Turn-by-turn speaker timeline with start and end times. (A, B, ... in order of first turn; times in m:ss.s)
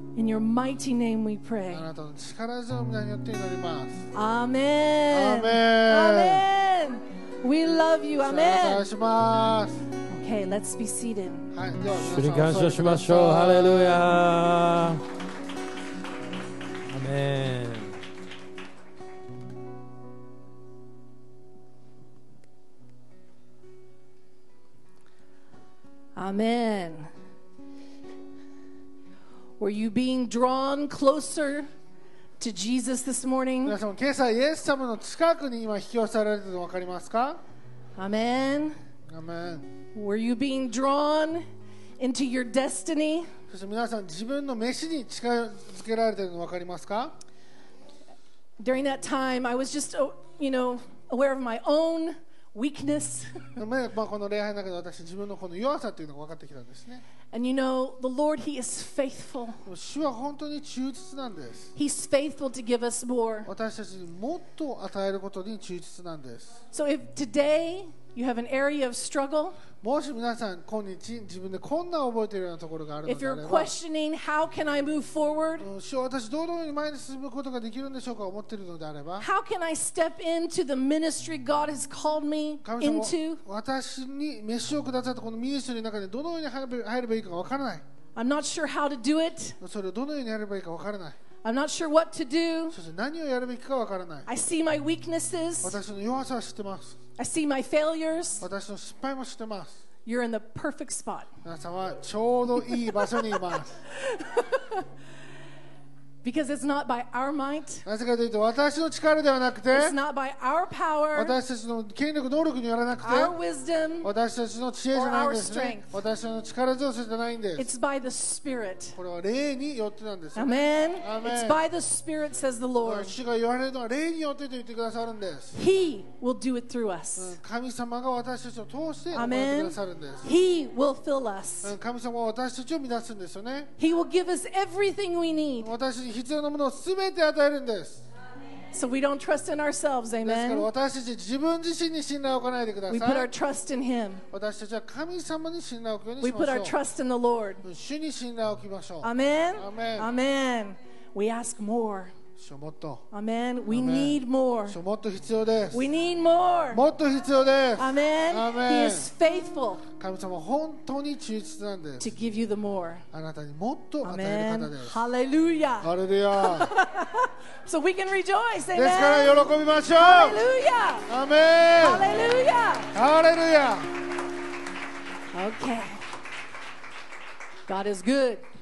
0:00.2-0:01.9 A
0:01.7-0:04.0 B
0:04.1-0:08.8 A
0:05.1-0:06.4 B
0:08.2-0:09.8 B
0:10.1-0:11.5 A
0:11.5-0:14.0 B
0:11.9-0:15.0 C
0:16.9-0:18.0 C
0:26.2-0:27.1 A
0:29.6-0:31.7 A
0:32.4-0:33.8 A
0:33.6-0:37.4 B
0:38.0-0:38.8 A
0:39.1-0:39.7 B
0:39.9-0:41.4 A
0:42.0-0:43.3 A
0:43.5-0:47.2 B
0:48.6-0:53.4 A
0:53.6-0:57.0 B
0:57.3-0:59.6 A
0:59.6-1:01.7 B
1:01.8-1:03.5 A
1:03.4-1:06.6 B
1:06.7-1:09.6 A
1:09.8-1:13.7 B
1:13.0-1:15.7 A
1:15.6-1:19.3 B
1:19.2-1:23.4 A
1:22.6-1:27.8 B
1:28.1-1:29.6 A
1:29.6-1:31.2 B
1:31.4-1:32.8 A
1:32.7-1:34.3 B
1:34.3-1:35.8 A
1:35.6-1:37.0 B
1:37.2-1:38.5 A
1:38.4-1:39.8 B
1:40.0-1:41.3 A
1:41.4-1:43.7 B
1:44.0-1:44.8 A
1:46.2-1:47.8 A
1:47.8-1:50.0 B
1:49.7-1:51.4 A
1:51.1-1:53.4 B
1:53.0-1:54.1 A
1:54.0-1:57.7 B
1:54.9-1:56.0 A
1:57.6-1:59.0 A
1:59.0-2:01.6 B
2:00.4-2:03.1 A
2:02.8-2:05.6 B
2:05.5-2:07.4 A
2:07.2-2:10.3 B
2:09.1-2:11.7 A
2:11.6-2:13.7 B
2:13.8-2:15.7 A
2:15.6-2:18.0 B
2:18.7-2:20.7 A
2:20.2-2:23.3 B
2:22.9-2:24.2 A
2:24.3-2:26.8 B
2:26.2-2:27.6 A
2:27.6-2:30.1 B
2:29.0-2:32.1 A
2:32.4-2:33.0 B
2:33.1-2:34.8 A
2:33.7-2:35.9 B
2:35.7-2:36.8 A
2:36.7-2:39.1 B
2:37.8-2:39.8 A
2:40.0-2:42.1 B
2:42.0-2:43.0 A
2:43.1-2:44.9 B
2:44.0-2:51.1 A
2:45.8-2:46.7 B
2:48.7-2:50.4 B
2:51.1-2:52.1 B
2:51.8-2:52.9 A
2:52.9-2:53.9 B
2:55.3-2:56.0 A
2:57.7-2:58.4 A